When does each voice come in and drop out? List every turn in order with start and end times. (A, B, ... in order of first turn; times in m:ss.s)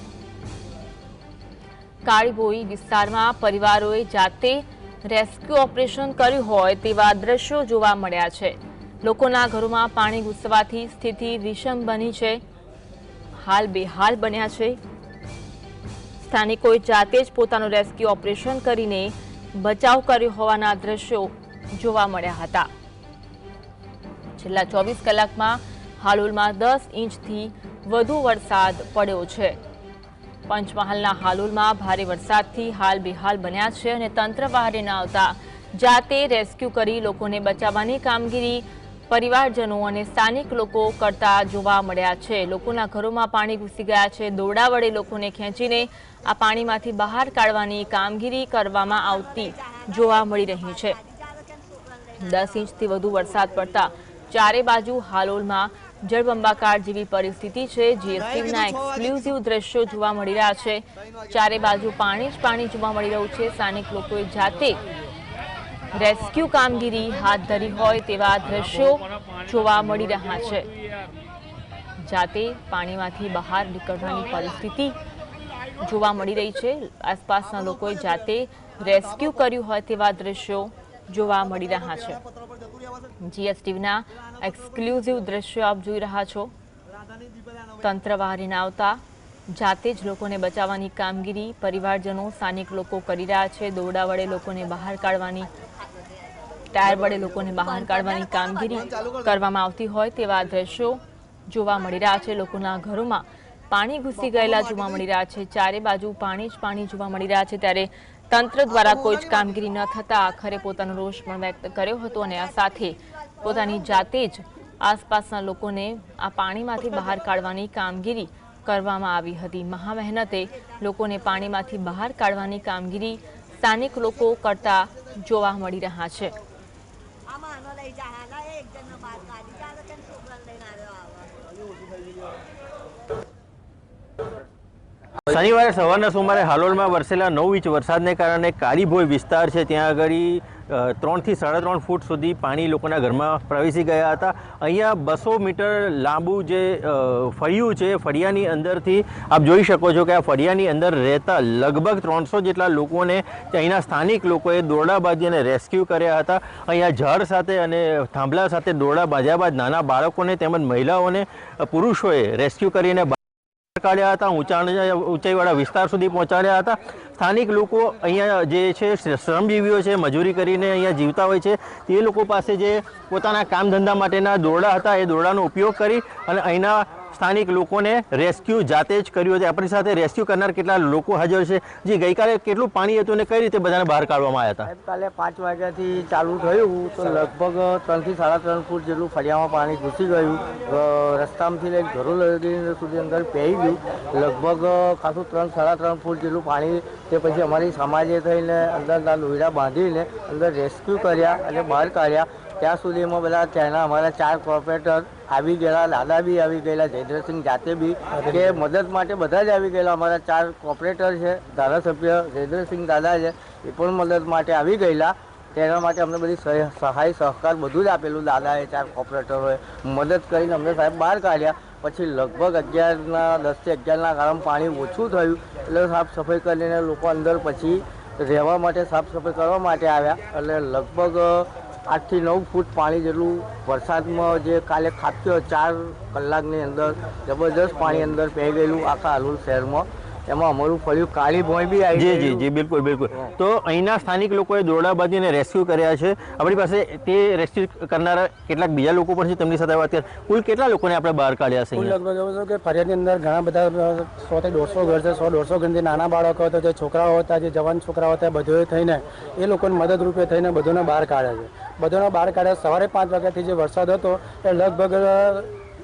0:02.0-0:12.4 A
0:13.4-0:14.8 A
0:16.2-0:22.7 A
0:24.4-0:29.6 A
0:30.5-0:51.0 A
0:49.5-0:52.2 B
0:52.2-1:04.8 A
1:05.9-1:10.7 A
1:12.0-1:15.0 A
1:15.8-1:22.2 A
1:23.2-1:26.5 A
1:27.8-1:35.5 A
1:35.5-1:36.5 B
1:36.7-2:06.4 A
2:07.3-2:11.4 B
2:15.3-2:43.2 C
2:43.8-3:04.7 C
3:04.6-4:02.5 D
3:28.1-3:28.6 E
4:01.9-4:12.0 C
4:11.7-4:25.5 E